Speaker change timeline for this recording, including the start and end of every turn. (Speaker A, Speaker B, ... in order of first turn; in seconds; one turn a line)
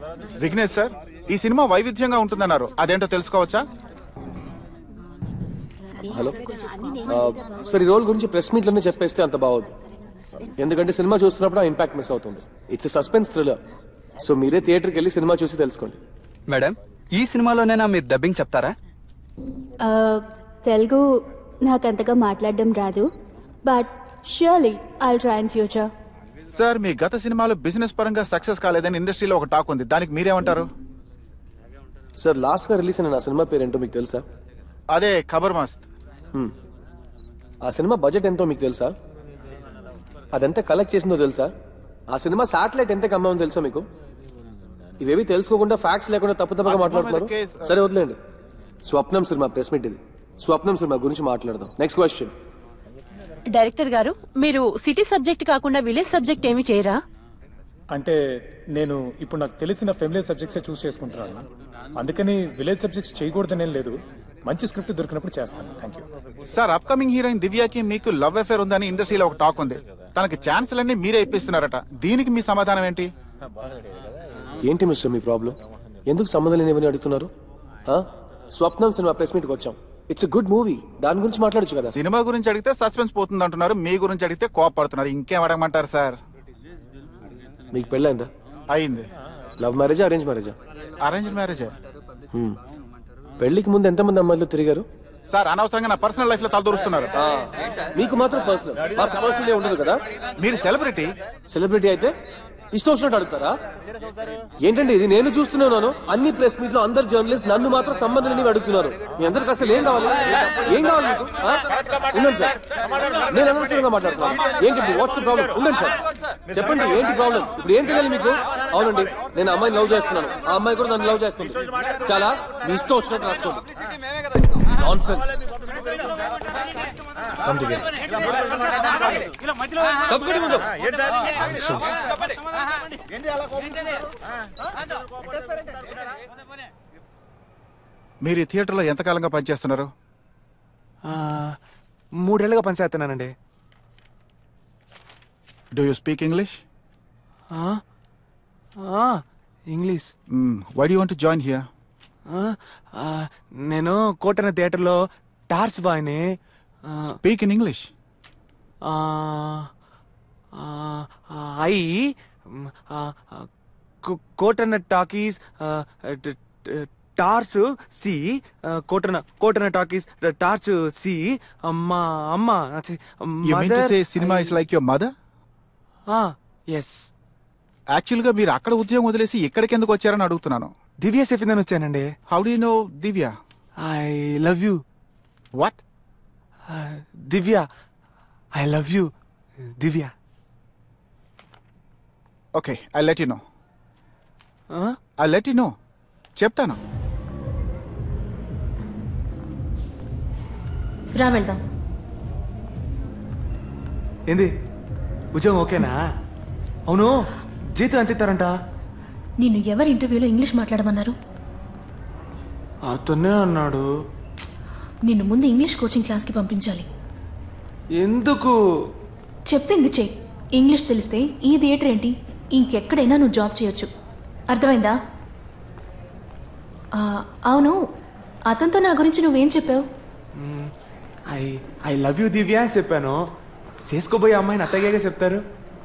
Speaker A: 0.4-3.6
Speaker B: 6.1-9.7
Speaker B: 10.4-13.6
Speaker B: 14.2-16.0
Speaker C: 16.5-18.7
Speaker D: 19.8-23.1
Speaker D: 23.6-25.9
Speaker A: 26.5-30.7
Speaker B: 32.2-34.2
Speaker A: 34.9-35.8
Speaker B: 37.6-38.9
Speaker B: 40.3-41.5
Speaker B: 42.1-43.9
Speaker B: 45.0-48.2
Speaker A: 46.6-47.7
Speaker B: 48.8-52.3
Speaker E: 53.5-57.0
Speaker F: 58.8-66.0
Speaker A: 66.5-73.1
Speaker B: 74.6-75.5
Speaker B: 76.1-77.3
Speaker B: 77.9-81.9
Speaker A: 81.9-86.2
Speaker B: 87.7-88.3
Speaker A: 88.7-89.0
Speaker B: 89.6-90.5
Speaker A: 91.0-91.7
Speaker B: 92.3-92.6
Speaker B: 93.4-94.8
Speaker A: 95.3-97.1
Speaker B: 97.2-100.0
Speaker A: 100.4-101.1
Speaker B: 101.5-102.1
Speaker B: 102.7-103.6
Speaker B: 104.6-112.6
Speaker B: 113.2-123.6
Speaker B: 124.8-125.4
Speaker B: 127.5-127.8
Speaker B: 130.1-130.7
Speaker B: 131.4-131.9
Speaker A: 138.2-139.9
Speaker G: 141.0-141.6
Speaker G: 142.2-143.3
Speaker A: 145.7-146.6
Speaker G: 147.5-147.8
Speaker G: 148.8-150.1
Speaker A: 150.3-151.6
Speaker G: 152.3-155.0
Speaker G: 155.5-156.3
Speaker A: 157.0-157.9
Speaker G: 158.9-159.7
Speaker G: 160.5-163.5
Speaker G: 164.0-174.6
Speaker A: 173.4-175.1
Speaker G: 176.1-177.1
Speaker A: 177.9-180.7
Speaker G: 181.0-182.1
Speaker A: 182.3-183.3
Speaker G: 183.8-184.8
Speaker G: 186.7-187.7
Speaker G: 188.5-189.1
Speaker G: 189.8-190.1
Speaker A: 192.5-193.4
Speaker G: 194.7-195.0
Speaker A: 195.2-195.7
Speaker A: 196.4-196.8
Speaker H: 201.2-201.6
Speaker G: 205.3-206.0
Speaker G: 207.7-208.5
Speaker H: 209.4-211.2
Speaker G: 212.8-213.9
Speaker H: 215.1-216.8
Speaker G: 218.0-218.5
Speaker H: 219.5-223.9
Speaker H: 224.5-224.9
Speaker H: 226.9-227.7
Speaker H: 228.5-229.8
Speaker G: 230.3-230.7
Speaker G: 231.3-233.2
Speaker G: 233.8-235.4